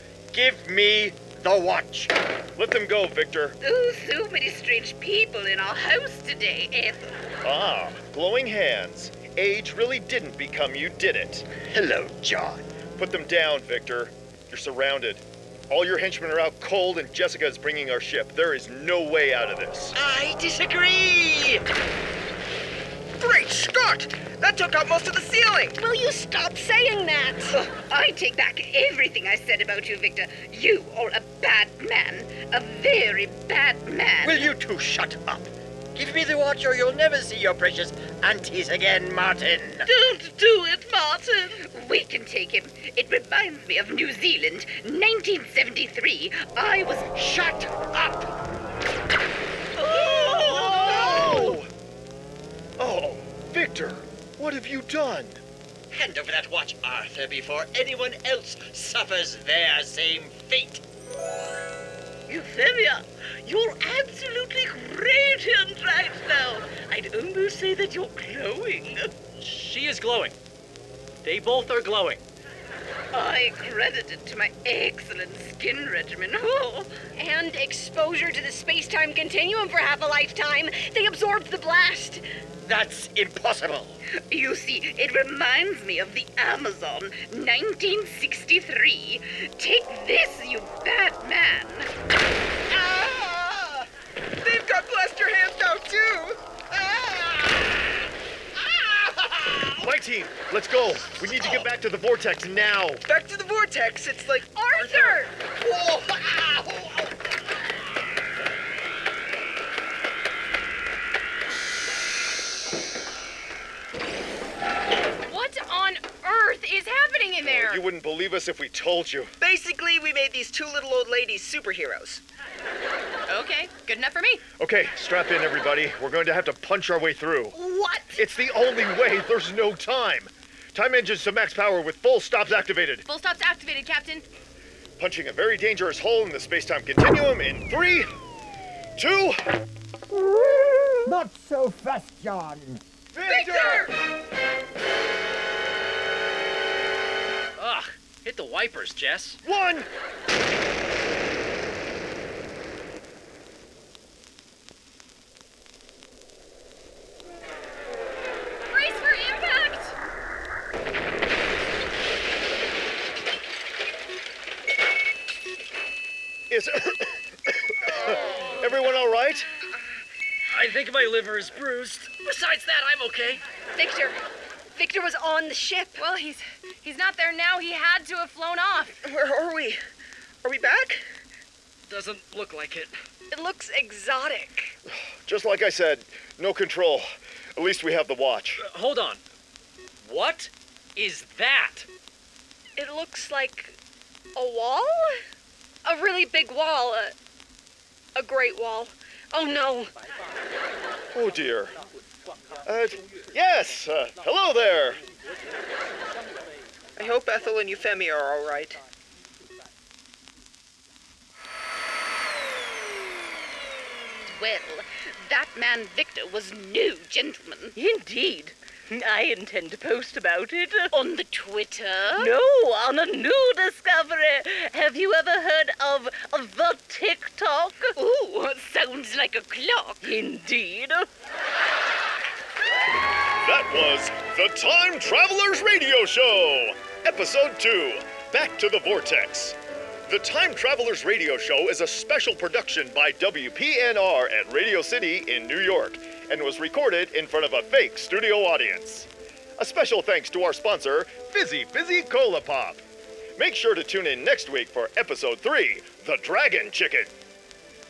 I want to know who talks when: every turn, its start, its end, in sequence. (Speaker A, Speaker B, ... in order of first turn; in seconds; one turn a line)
Speaker A: 0.3-2.1
Speaker B: 2.6-3.6
Speaker C: 3.6-7.1
Speaker B: 7.4-11.5
Speaker A: 11.7-12.7
Speaker B: 13.0-20.0
Speaker A: 19.9-21.6
Speaker D: 23.2-25.8
Speaker E: 25.8-27.6
Speaker C: 27.5-34.5
Speaker A: 34.2-39.8
Speaker F: 39.8-41.6
Speaker C: 41.6-47.1
Speaker A: 47.1-48.3
Speaker F: 49.8-51.6
Speaker B: 49.9-51.7
Speaker B: 52.8-55.4
Speaker A: 55.9-60.8
Speaker F: 62.3-69.1
Speaker G: 69.4-70.3
Speaker G: 71.2-72.2
Speaker C: 73.1-76.9
Speaker E: 77.2-82.2
Speaker A: 82.6-84.0
Speaker C: 84.2-91.9
Speaker A: 92.7-93.8
Speaker D: 94.4-96.4
Speaker A: 96.7-97.8
Speaker A: 98.6-99.8
Speaker B: 99.8-103.0
Speaker D: 103.0-105.2
Speaker E: 104.5-105.3
Speaker A: 105.6-107.0
Speaker H: 115.3-117.8
Speaker B: 117.4-119.3
Speaker D: 119.4-122.2
Speaker H: 123.3-124.4
Speaker B: 124.6-127.5
Speaker B: 128.2-133.0
Speaker H: 133.1-134.2
Speaker B: 135.0-138.1
Speaker B: 138.9-139.4
Speaker A: 140.2-142.8
Speaker B: 143.1-143.9
Speaker D: 143.2-143.9
Speaker G: 147.6-149.4
Speaker B: 149.4-149.9
Speaker H: 158.7-159.9
Speaker B: 166.5-169.5
Speaker G: 170.5-173.4
Speaker E: 173.7-174.2
Speaker E: 174.7-176.0
Speaker H: 176.0-179.0
Speaker D: 179.0-179.8
Speaker D: 180.4-181.0
Speaker G: 181.9-182.9
Speaker E: 183.3-184.7
Speaker B: 184.9-187.0
Speaker B: 187.6-188.6
Speaker G: 188.6-189.2
Speaker G: 190.0-191.9
Speaker E: 192.8-193.8
Speaker E: 194.3-195.2
Speaker E: 195.8-197.1
Speaker E: 198.2-199.9
Speaker B: 201.1-201.8
Speaker B: 202.6-205.0
Speaker D: 207.0-208.8
Speaker C: 214.3-217.8
Speaker F: 217.8-220.9
Speaker C: 220.9-222.3
Speaker F: 222.1-227.9
Speaker C: 228.0-230.2
Speaker F: 230.0-231.1
Speaker B: 233.4-252.8
Speaker B: 253.4-257.1